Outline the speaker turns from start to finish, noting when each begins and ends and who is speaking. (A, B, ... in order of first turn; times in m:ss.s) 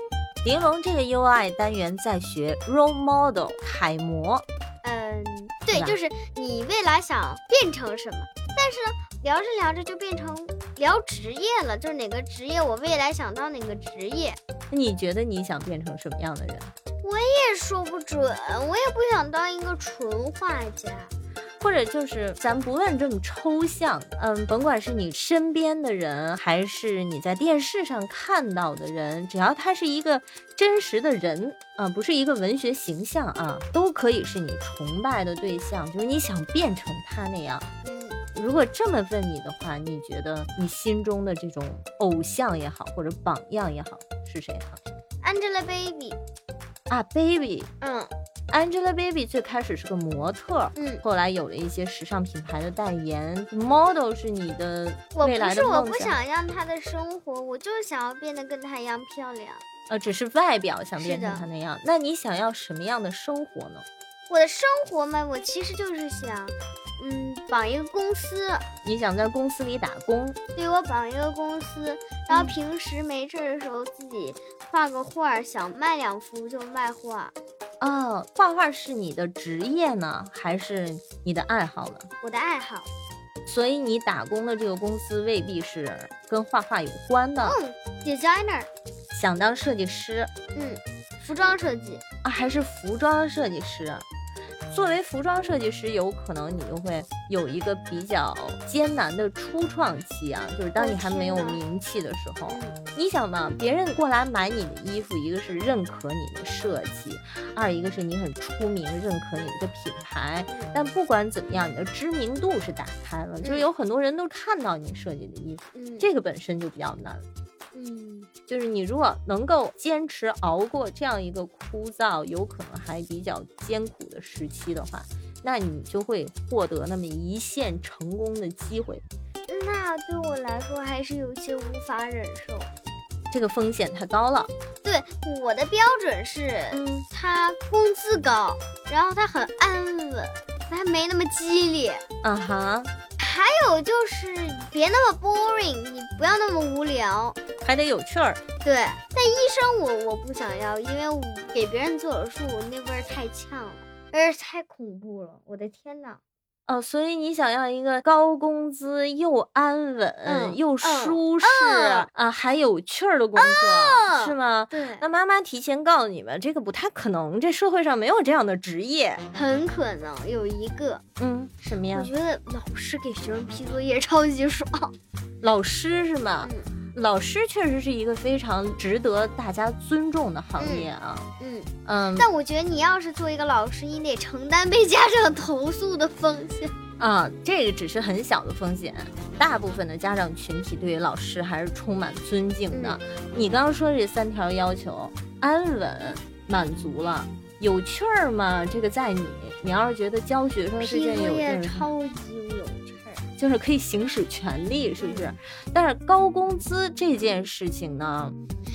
0:00.4-0:04.4 A
0:04.8-0:14.4 B
0:14.7-0:16.7 A
0:17.0-0:21.1 B
0:21.6-0:37.6 A
0:37.8-0:38.2 B
0:38.3-0:44.8 A
0:45.2-0:46.2 B
0:46.9-0:47.7 A
0:47.8-0:48.1 B
0:48.5-0:56.2 A
0:50.8-0:51.0 B
0:55.1-0:59.6 B
0:59.9-1:03.8 A
1:01.0-1:01.5 B
1:04.3-1:08.7 B
1:08.8-1:10.4 A
1:10.6-1:17.3 B
1:12.3-1:12.5 A
1:17.8-1:22.1 A
1:22.2-1:22.9 B
1:23.4-1:27.6 A
1:27.4-1:28.7 B
1:29.1-1:30.3 A
1:30.5-1:32.0 B
1:32.2-1:34.0 A
1:34.7-1:57.2 A
1:40.8-1:41.6 B
1:42.5-1:42.8 B
1:53.4-1:53.7 B
1:55.7-1:56.1 B
1:57.7-1:58.3 B
1:58.5-2:09.0 A
2:09.5-2:12.7 B
2:13.3-2:14.5 A
2:14.8-2:22.0 B
2:16.7-2:17.0 A
2:22.2-2:22.9 A
2:23.2-2:27.4 B
2:27.6-2:28.4 A
2:28.6-2:36.2 B
2:36.7-2:49.2 A
2:40.2-2:42.1 B
2:43.4-2:45.0 B
2:49.3-2:51.0 B
2:51.2-2:52.1 A
2:51.9-2:54.9 B
2:55.4-3:01.3 A
2:56.4-2:56.7 B
3:00.6-3:00.9 B
3:01.4-3:06.7 B
3:01.8-3:02.3 A
3:07.0-3:21.9 A
3:12.7-3:13.0 B
3:20.8-3:23.2 B
3:23.4-3:28.4 A
3:25.0-3:25.2 B